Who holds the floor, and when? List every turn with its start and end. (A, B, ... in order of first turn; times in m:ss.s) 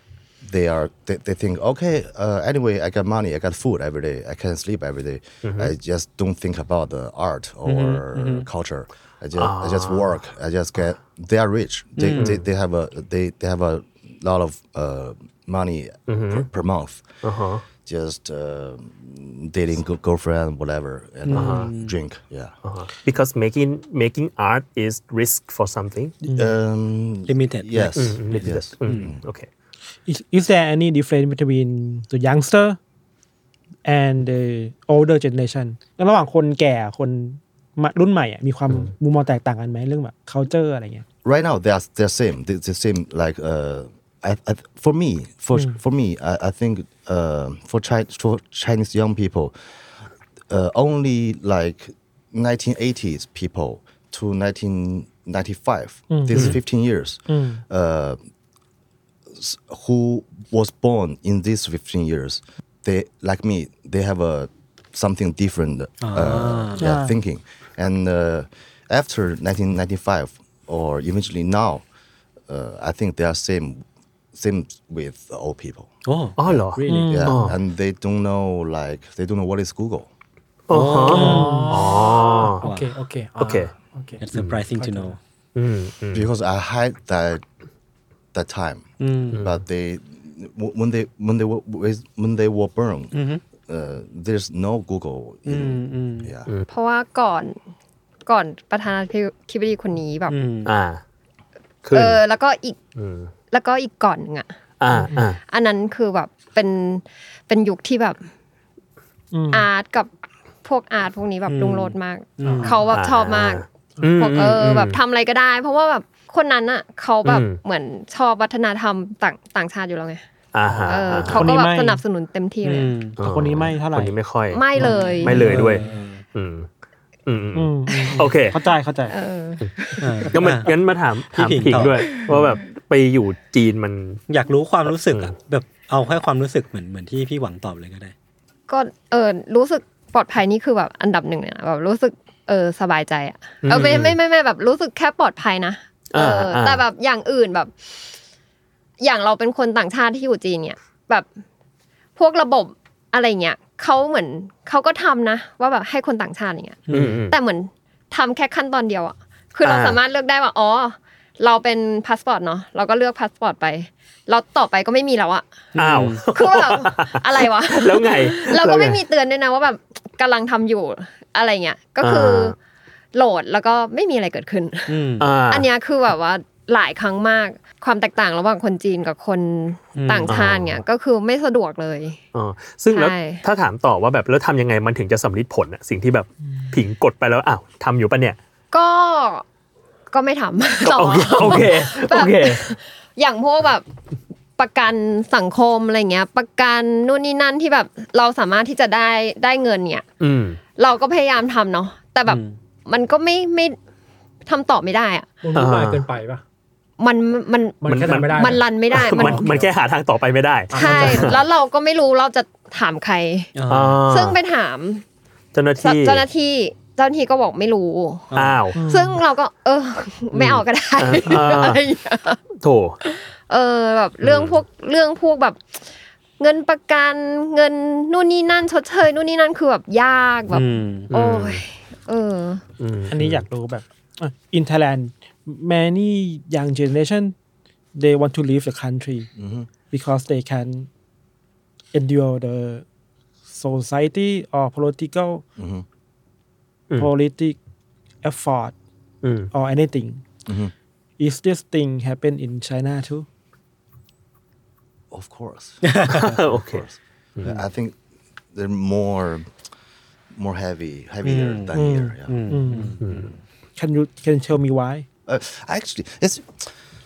0:00.4-0:17.0 A
0:05.4-0:05.7 B
0:07.7-0:08.5 C
0:09.4-0:10.1 B
0:12.0-0:12.4 C
0:12.1-0:12.4 B
0:16.1-0:16.5 B
0:17.2-0:17.6 B
0:17.8-0:22.5 A
0:21.3-0:22.0 C
0:21.3-0:21.7 B
0:22.6-0:26.2 B
0:26.2-0:26.5 D
0:26.4-0:29.2 A
0:27.3-0:27.9 C
0:28.0-0:29.5 B
0:28.8-0:29.2 C
0:30.1-0:32.8 D
0:33.8-0:41.0 D
0:41.2-0:50.0 A
0:50.5-0:58.2 A
0:56.1-0:56.6 D
0:57.3-0:57.6 D
0:59.3-1:11.8 A
1:06.0-1:06.9 C
1:06.8-1:07.1 D
1:12.5-1:16.0 A
1:16.1-1:17.5 C
1:16.4-1:17.6 B
1:16.5-1:20.1 A
1:16.9-1:17.2 D
1:20.7-1:22.6 B
1:20.7-1:21.7 C
1:21.1-1:24.2 E
1:21.1-1:21.9 D
1:22.6-1:22.9 C
1:23.4-1:23.7 B
1:24.2-1:25.2 C
1:24.3-1:24.6 B
1:24.8-1:25.2 E
1:25.6-1:26.3 B
1:26.1-1:27.4 A
1:28.3-1:36.5 A
1:29.0-1:29.4 C
1:33.1-1:33.4 C
1:35.5-1:36.3 C
1:36.7-1:37.6 F
1:38.3-1:40.4 F
1:40.3-1:40.7 C
1:40.6-1:41.0 B
1:41.8-1:42.2 B
1:41.9-1:42.8 F
1:43.0-1:43.3 B
1:43.5-1:44.6 F
1:44.8-1:45.4 B
1:45.4-1:48.3 F
1:49.3-1:49.7 D
1:49.5-1:50.1 F
1:50.6-1:53.6 F
1:51.5-1:52.9 C
1:52.4-1:52.8 E
1:52.9-1:55.0 B
1:54.2-2:00.2 F
1:57.2-1:57.6 B
2:00.5-2:01.5 B
2:00.9-2:03.0 F
2:01.3-2:02.0 D
2:02.6-2:03.2 C
2:03.2-2:05.8 B
2:03.2-2:04.2 D
2:04.5-2:05.6 F
2:04.8-2:06.2 C
2:06.4-2:06.7 B
2:07.3-2:08.6 B
2:07.6-2:09.1 D
2:07.9-2:08.3 F
2:09.1-2:10.3 F
2:10.0-2:10.8 C
2:10.3-2:14.2 B
2:11.3-2:12.5 C
2:14.3-2:18.1 C
2:14.9-2:15.3 B
2:18.7-2:27.9 F
2:23.6-2:24.2 B
2:26.1-2:26.8 B
2:29.0-2:31.3 F
2:32.2-2:45.5 F
2:36.9-2:37.2 C
2:36.9-2:37.4 B
2:39.6-2:40.0 B
2:45.8-2:46.2 C
2:45.8-2:49.0 B
2:46.3-2:52.6 F
2:52.0-2:52.6 B
2:53.1-3:02.2 F
2:54.9-2:55.3 C
2:55.2-2:55.7 B
3:00.0-3:00.4 C
3:00.3-3:00.8 B
3:02.3-3:08.4 B
3:02.9-3:03.4 F
3:08.7-3:09.4 F
3:10.1-3:13.8 F
3:10.8-3:12.7 B
3:14.6-3:20.0 F
3:20.2-3:20.6 B
3:20.8-3:23.8 F
3:22.3-3:22.6 C
3:24.5-3:25.3 F
3:25.4-3:26.4 E
3:25.6-3:26.0 B
3:27.0-3:29.5 F
3:27.8-3:29.7 E
3:27.9-3:31.4 B
3:30.7-3:31.4 E
3:30.7-3:33.5 F
3:33.6-3:34.0 C
3:33.7-3:34.4 B
3:34.0-3:35.0 F
3:35.5-3:36.2 B
3:35.8-3:42.4 F
3:38.3-3:38.6 C
3:38.3-3:38.8 B
3:38.8-3:39.2 D
3:40.3-3:41.8 B
3:42.6-3:43.0 B
3:43.0-3:45.6 F
3:44.2-3:44.6 B
3:46.4-3:52.6 F
3:50.5-3:51.1 C
3:51.1-3:51.6 B
3:52.8-3:53.5 B
3:53.1-3:57.4 D
3:58.0-3:59.3 D
3:59.4-3:59.7 A
3:59.9-4:00.9 D
4:01.9-4:02.8 D
4:03.5-4:05.4 D
4:05.6-4:05.8 A
4:07.0-4:07.6 D
4:08.2-4:08.8 D
4:09.2-4:09.5 B
4:09.5-4:10.2 D
4:10.5-4:10.7 A
4:11.2-4:13.3 D
4:15.1-4:18.0 A
4:15.8-4:16.3 C
4:16.1-4:16.9 B
4:18.5-4:19.5 A
4:20.3-4:22.5 A
4:21.2-4:23.4 C
4:21.7-4:23.0 D
4:23.0-4:23.3 B
4:23.8-4:25.1 D
4:25.3-4:26.7 A